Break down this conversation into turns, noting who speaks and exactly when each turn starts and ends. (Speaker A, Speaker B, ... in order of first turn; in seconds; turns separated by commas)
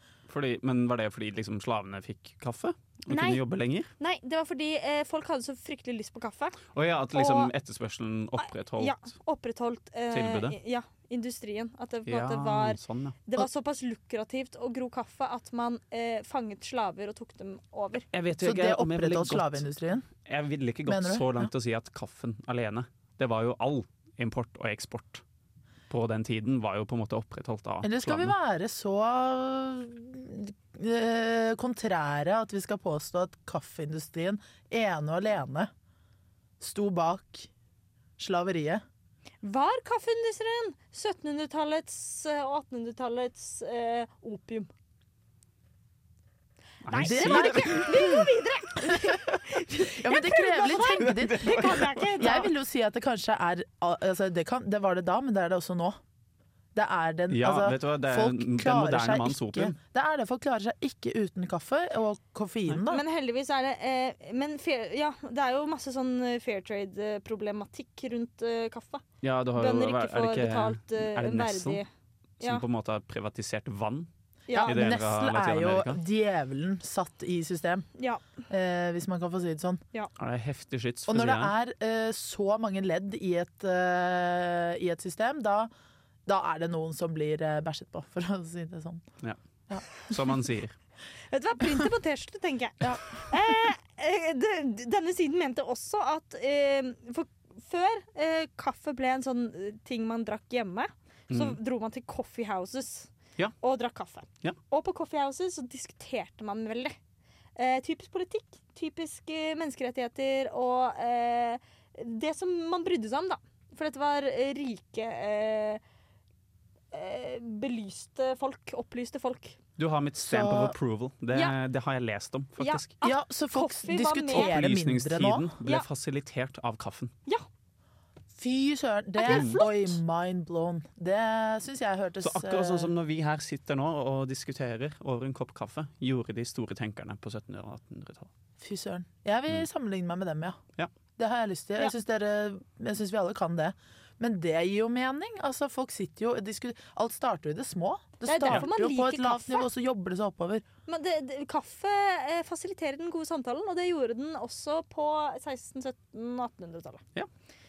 Speaker A: 0.3-3.9, Speaker B: 3.1-3.4, Speaker B: 4.0-6.6, Speaker A: 6.7-9.1, Speaker B: 7.1-7.5, Speaker B: 8.4-18.1, Speaker A: 10.1-10.5, Speaker A: 12.1-13.2, Speaker A: 18.1-19.6, Speaker C: 18.4-20.1, Speaker A: 20.2-25.2, Speaker C: 20.9-21.5, Speaker A: 25.9-28.3, Speaker C: 27.8-35.7, Speaker C: 36.6-37.5, Speaker C: 38.2-38.8, Speaker B: 39.4-44.7, Speaker A: 46.8-48.2, Speaker B: 46.9-52.5, Speaker C: 47.0-48.2, Speaker C: 49.8-56.0, Speaker A: 51.1-52.0, Speaker C: 56.7-63.0, Speaker A: 57.3-59.8, Speaker B: 62.9-69.0, Speaker A: 69.2-71.8, Speaker B: 69.6-71.8, Speaker A: 72.4-74.1, Speaker B: 74.5-74.8, Speaker C: 74.5-77.9, Speaker A: 74.7-76.0, Speaker B: 78.0-78.2, Speaker C: 78.5-79.8, Speaker A: 80.2-81.5, Speaker C: 81.1-85.7, Speaker C: 86.2-89.0, Speaker A: 90.0-90.7, Speaker B: 91.3-107.0, Speaker A: 101.3-101.6, Speaker B: 107.5-115.8, Speaker B: 116.9-119.6, Speaker A: 119.8-122.9, Speaker C: 120.2-120.7, Speaker B: 122.6-124.5, Speaker C: 123.0-125.5, Speaker A: 124.3-127.1, Speaker C: 128.3-132.9, Speaker B: 129.2-130.0, Speaker A: 129.3-129.6, Speaker A: 132.2-138.3, Speaker C: 138.6-140.6, Speaker C: 141.2-150.6, Speaker B: 148.2-149.7, Speaker B: 150.9-157.0